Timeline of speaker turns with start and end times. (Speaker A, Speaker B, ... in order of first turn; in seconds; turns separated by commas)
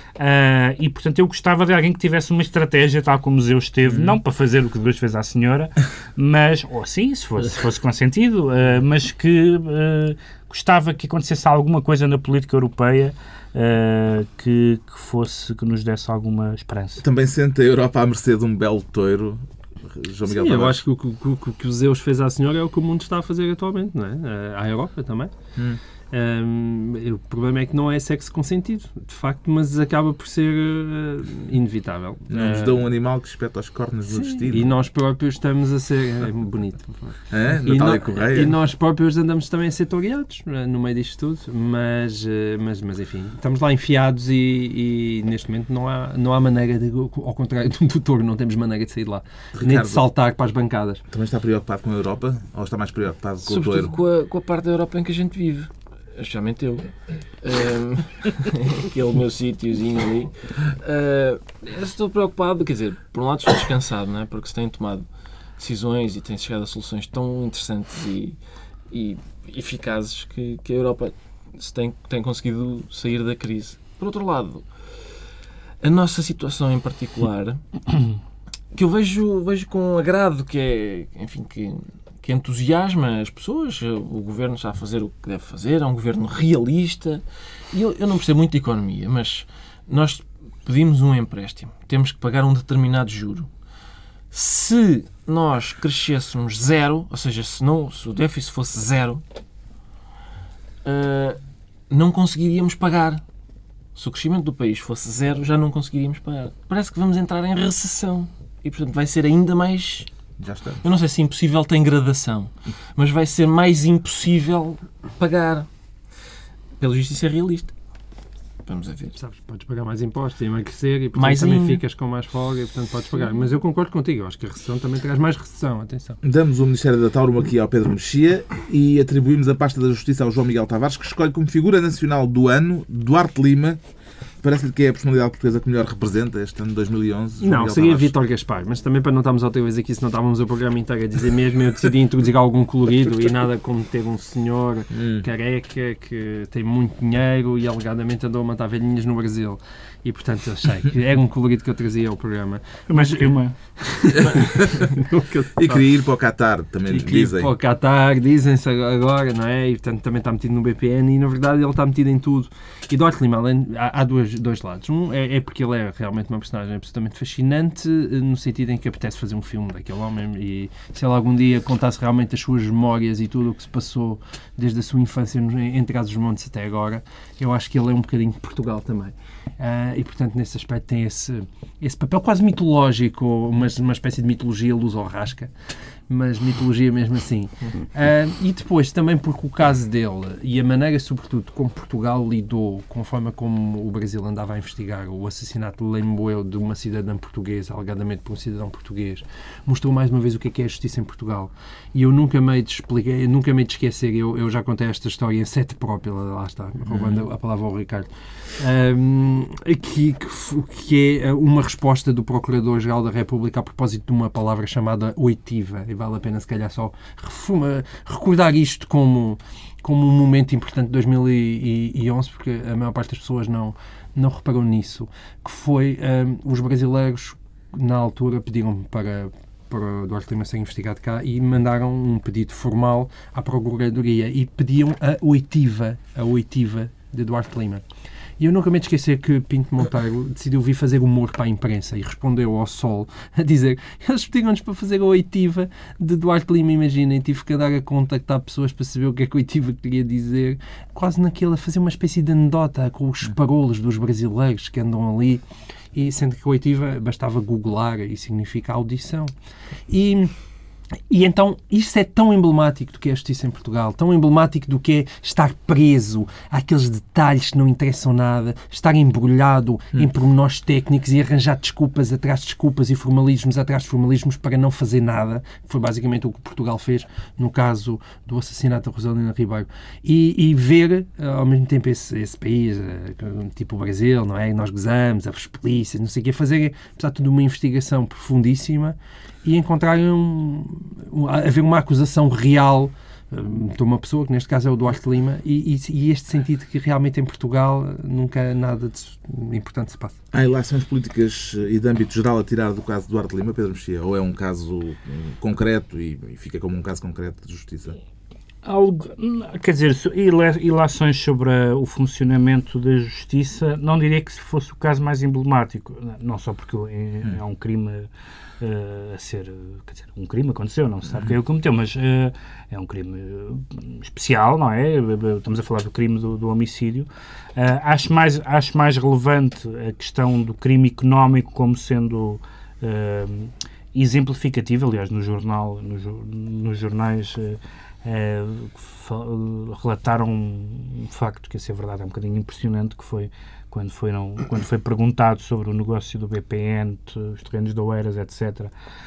Speaker A: 0.2-17.0, Speaker B: 17.0-20.8, Speaker C: 20.2-25.3, Speaker C: 26.1-32.9, Speaker B: 32.3-34.7, Speaker C: 34.1-51.0, Speaker B: 37.3-38.5, Speaker B: 49.5-50.1, Speaker B: 51.1-53.9, Speaker D: 53.4-65.0, Speaker D: 65.6-68.4, Speaker D: 68.9-74.7, Speaker D: 75.8-77.6, Speaker D: 78.7-93.5, Speaker D: 94.3-99.2, Speaker D: 100.8-101.4, Speaker D: 101.9-103.2, Speaker D: 104.0-110.1, Speaker B: 110.4-110.8, Speaker D: 110.8-115.7, Speaker D: 116.8-117.7, Speaker D: 118.7-119.2, Speaker C: 119.2-126.2, Speaker D: 121.1-121.8, Speaker B: 126.2-133.8, Speaker B: 134.4-138.1, Speaker C: 137.4-155.8, Speaker B: 144.9-145.2, Speaker A: 152.9-154.2, Speaker B: 155.5-157.5, Speaker C: 156.9-237.8, Speaker B: 206.9-207.2, Speaker C: 238.4-259.3, Speaker C: 259.9-260.3, Speaker C: 261.1-300.1, Speaker B: 300.3-307.9, Speaker A: 308.6-318.1, Speaker A: 318.6-348.7